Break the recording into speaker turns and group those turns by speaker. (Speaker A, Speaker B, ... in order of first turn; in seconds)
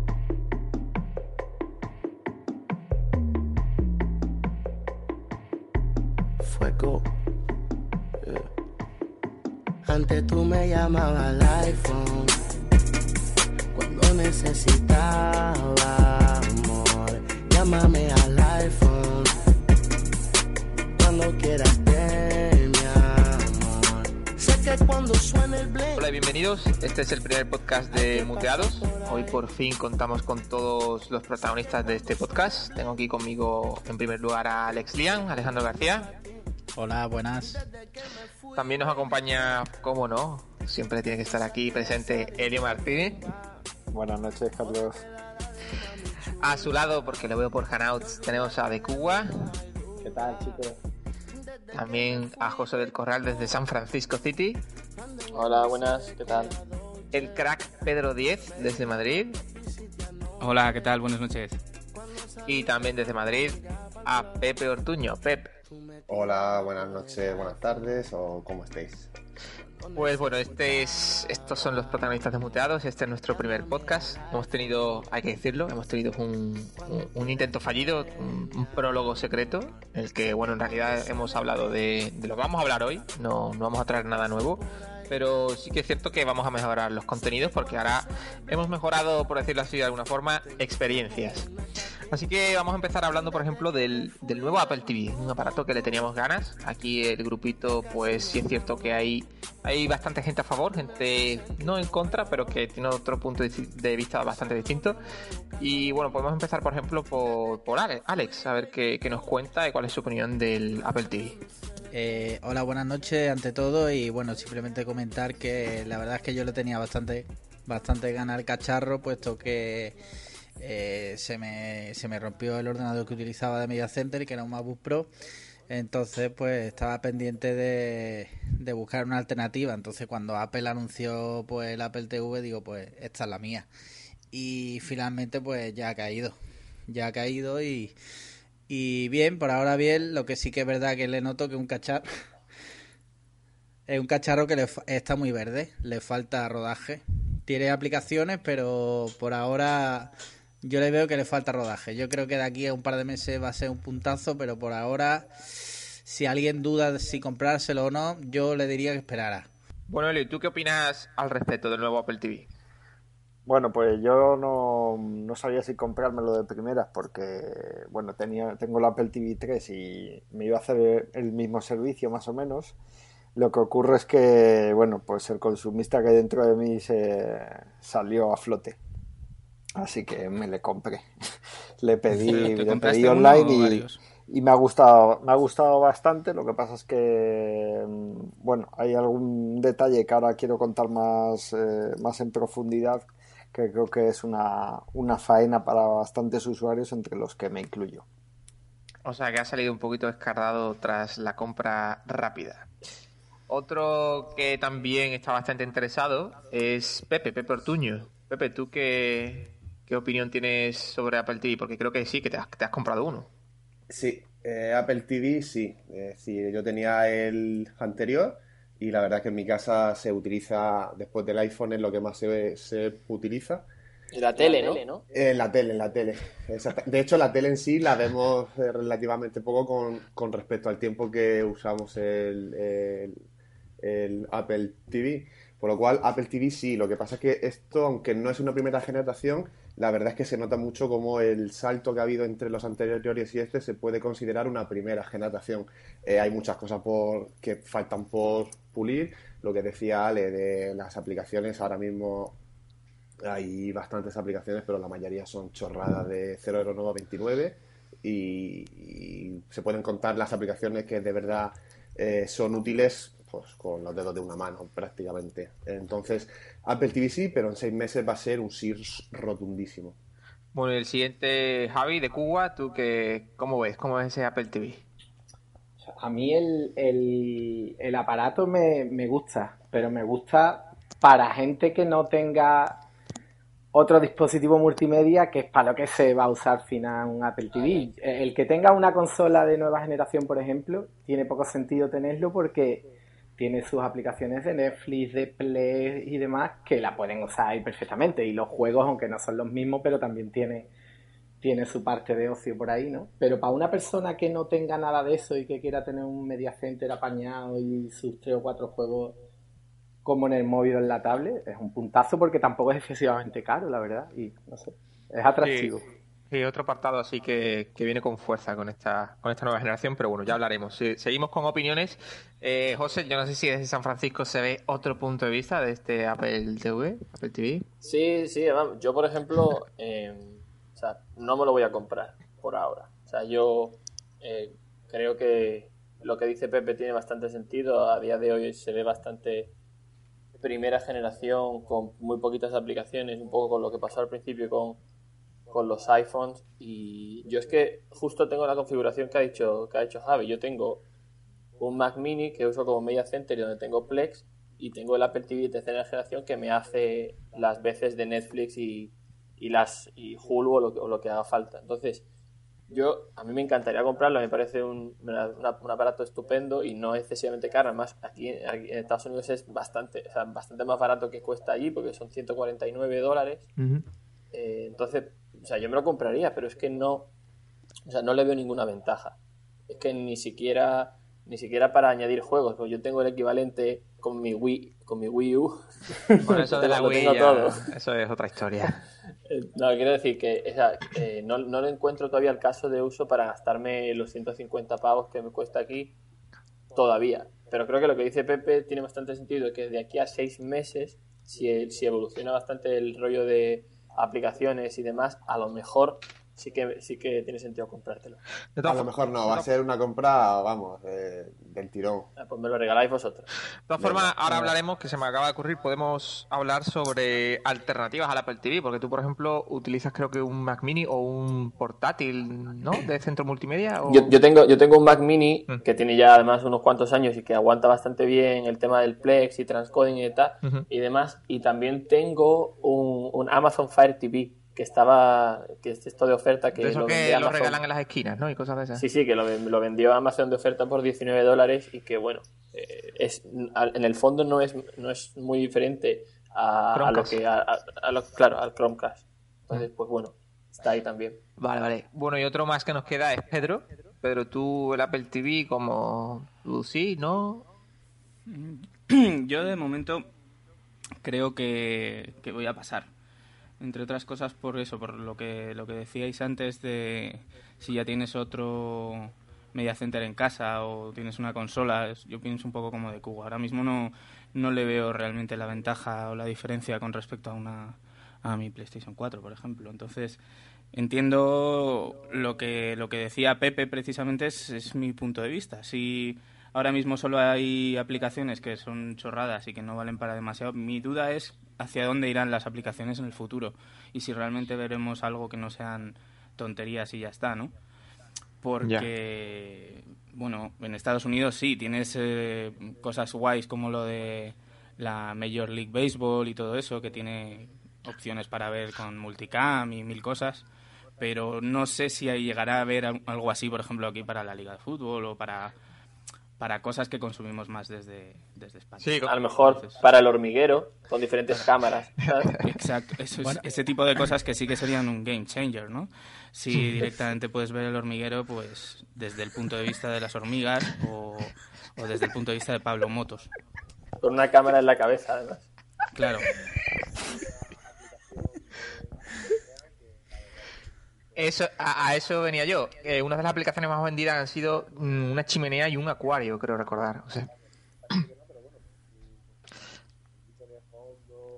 Speaker A: 6.4-7.1, 8.2-8.5, 9.9-12.5, 13.7-19.4, 20.9-26.1, 27.9-29.4, 31.7-33.0, 35.8-36.2, 37.5-39.4, 41.7-43.4, 45.0-47.0, 51.4-53.3, 55.0-57.5, 58.5-60.3, 62.0-64.5, 65.7-67.6, 69.6-72.4, 73.2-75.1, 76.7-81.8, 84.5-85.5, 87.6-89.0, 90.6-91.6, 97.9-98.5
Speaker B: 25.9-36.1, 38.5-43.2, 46.4-49.6, 51.7-54.6, 57.1-59.4, 62.5-65.5, 69.9-91.5, 92.1-105.0, 105.6-111.4, 159.9-162.5, 199.0-202.7, 203.5-213.3, 270.5-274.9, 315.4-315.8, 316.3-327.7, 373.6-373.9, 386.2-388.9, 408.6-409.5, 413.7-424.1, 436.6-438.9, 446.7-447.2, 451.4-457.5, 498.6-498.9, 518.8-519.1, 541.1-547.3
Speaker C: 36.8-37.6, 111.9-120.0, 120.6-125.1, 125.7-133.7, 134.3-136.3, 136.9-137.9, 138.7-142.1, 143.9-159.5, 523.2-523.4
Speaker D: 43.9-45.0, 163.4-172.8, 173.3-178.8, 179.8-181.1, 181.8-198.1
Speaker E: 50.0-50.8, 275.9-282.8, 283.7-300.7, 301.4-309.2, 310.1-315.9
Speaker F: 55.3-56.5, 224.1-225.0, 287.6-287.8, 327.8-339.5, 340.4-344.8, 345.5-350.9, 351.6-362.1, 362.7-373.5, 374.3-377.1, 377.9-387.7, 389.3-396.0, 396.7-408.2, 412.2-413.3, 423.9-437.6, 438.8-451.2, 519.1-522.4, 534.0-535.5
Speaker G: 60.4-61.6, 182.2-184.0, 458.3-460.1, 461.0-462.9, 463.6-480.2, 480.7-497.5, 498.4-510.4, 511.0-515.5, 516.4-519.8, 522.4-533.3, 536.0-536.3
Speaker H: 66.1-69.1, 213.9-223.7, 225.1-233.2, 233.8-252.4, 253.2-270.0, 408.6-412.1, 413.8-414.5